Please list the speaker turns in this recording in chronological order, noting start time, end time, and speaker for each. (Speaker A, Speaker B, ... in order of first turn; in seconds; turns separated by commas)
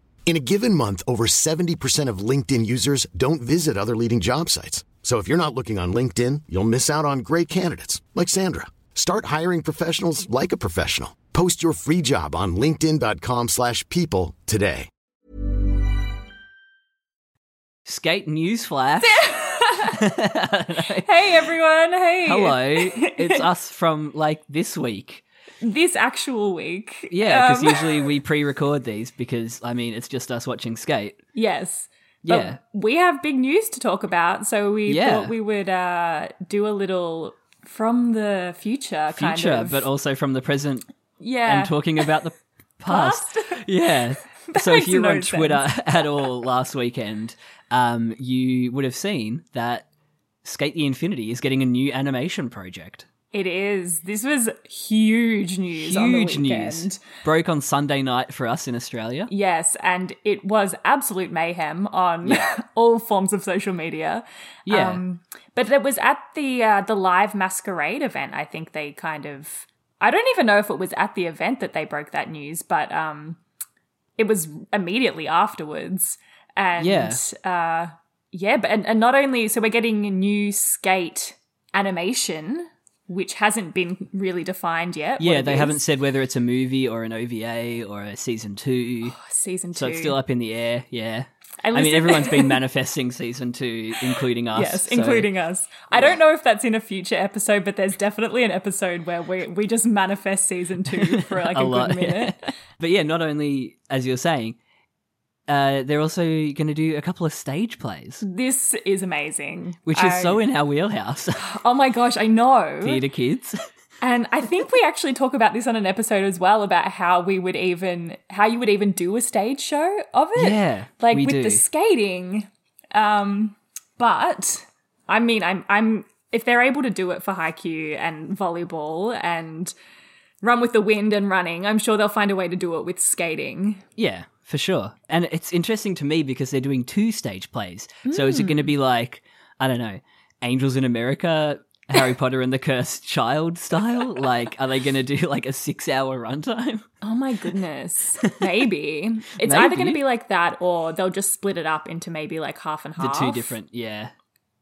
Speaker A: 0.3-14.9, Speaker B: 17.9-19.2, Speaker C: 19.0-20.0, Speaker B: 19.8-21.1, Speaker C: 21.0-23.4, Speaker B: 22.2-25.2, Speaker C: 25.6-28.1, Speaker B: 27.1-31.2, Speaker C: 31.4-39.9, Speaker B: 32.2-32.6, Speaker B: 34.9-35.3, Speaker B: 39.1-40.9, Speaker C: 41.2-42.1, Speaker B: 41.5-49.9, Speaker C: 42.9-43.6, Speaker C: 44.5-45.7, Speaker B: 50.4-53.1, Speaker C: 53.3-57.0, Speaker B: 55.8-59.3, Speaker C: 59.3-73.4, Speaker B: 64.7-65.0, Speaker C: 74.2-85.8, Speaker B: 76.8-77.2, Speaker B: 85.2-89.2, Speaker C: 89.0-90.2, Speaker B: 89.7-95.3, Speaker C: 91.6-92.6, Speaker C: 94.0-102.5, Speaker B: 95.9-96.2, Speaker B: 100.9-104.6, Speaker B: 105.5-108.2, Speaker C: 108.2-110.4, Speaker B: 109.9-111.5, Speaker C: 111.4-113.0, Speaker B: 112.8-113.6, Speaker C: 114.0-129.7, Speaker B: 120.3-121.6, Speaker C: 130.4-133.8, Speaker B: 134.0-146.9, Speaker C: 138.1-138.7, Speaker C: 147.0-153.6, Speaker B: 149.4-150.0, Speaker B: 153.0-154.1